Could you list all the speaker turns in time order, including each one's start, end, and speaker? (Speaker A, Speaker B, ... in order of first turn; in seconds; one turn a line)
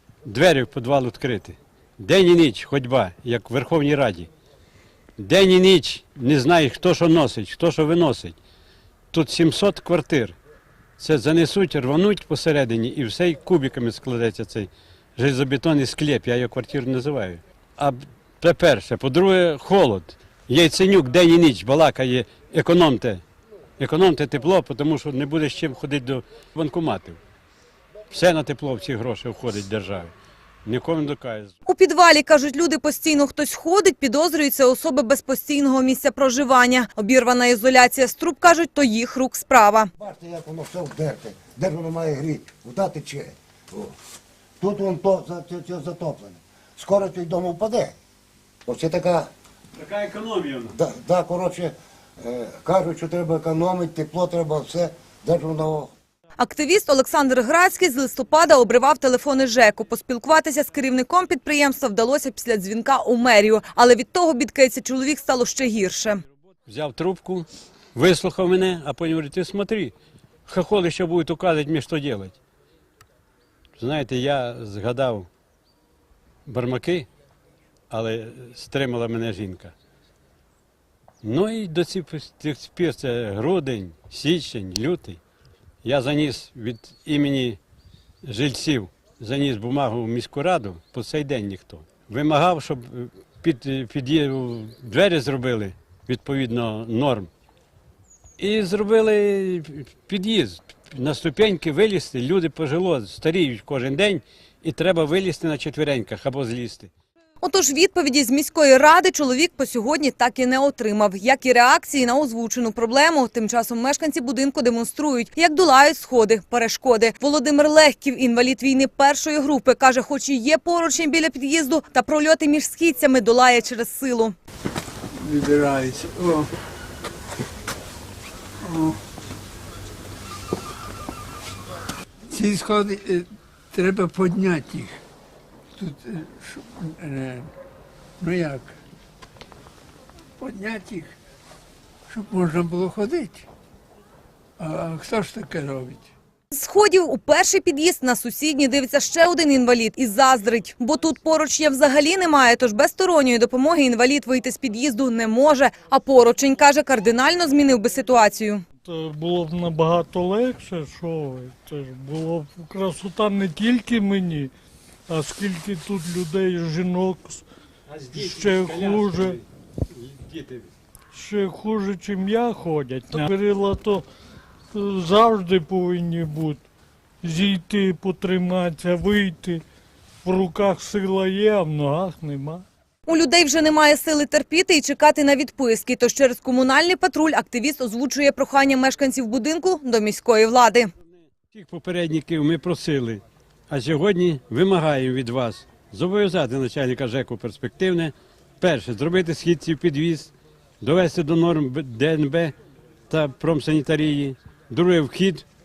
Speaker A: 0.2-4.3
Speaker A: 5.2-8.3
Speaker A: 9.1-10.3
Speaker A: 11.0-23.2
Speaker A: 23.8-27.2
Speaker A: 28.1-30.1
Speaker A: 30.6-31.5
Speaker B: 31.6-39.9
Speaker C: 40.0-43.9
Speaker C: 44.6-47.9
Speaker C: 48.6-49.3
Speaker A: 49.8-50.7
Speaker C: 50.7-55.9
Speaker B: 56.4-66.2
Speaker A: 66.7-69.9
Speaker A: 70.5-72.4
Speaker A: 73.8-75.3
Speaker A: 76.5-77.1
Speaker A: 77.9-79.7
Speaker A: 81.2-85.2
Speaker A: 85.8-87.6
Speaker A: 88.2-97.3
Speaker A: 98.4-106.9
Speaker B: 107.4-124.3
Speaker D: 125.2-126.5
Speaker D: 128.6-129.0
Speaker D: 132.3-135.0
Speaker D: 135.7-137.5
Speaker D: 138.2-138.8
Speaker D: 140.4-141.1
Speaker D: 142.1-143.5
Speaker D: 144.6-146.1
Speaker B: 146.5-158.6
Speaker E: 158.8-164.5
Speaker E: 165.1-167.4
Speaker A: 167.9-170.7
Speaker E: 168.1-169.4
Speaker E: 171.1-174.1
Speaker E: 174.7-176.6
Speaker E: 177.2-179.6
Speaker E: 180.2-182.6
Speaker B: 183.1-190.9
Speaker A: 191.4-202.5
Speaker A: 203.1-205.4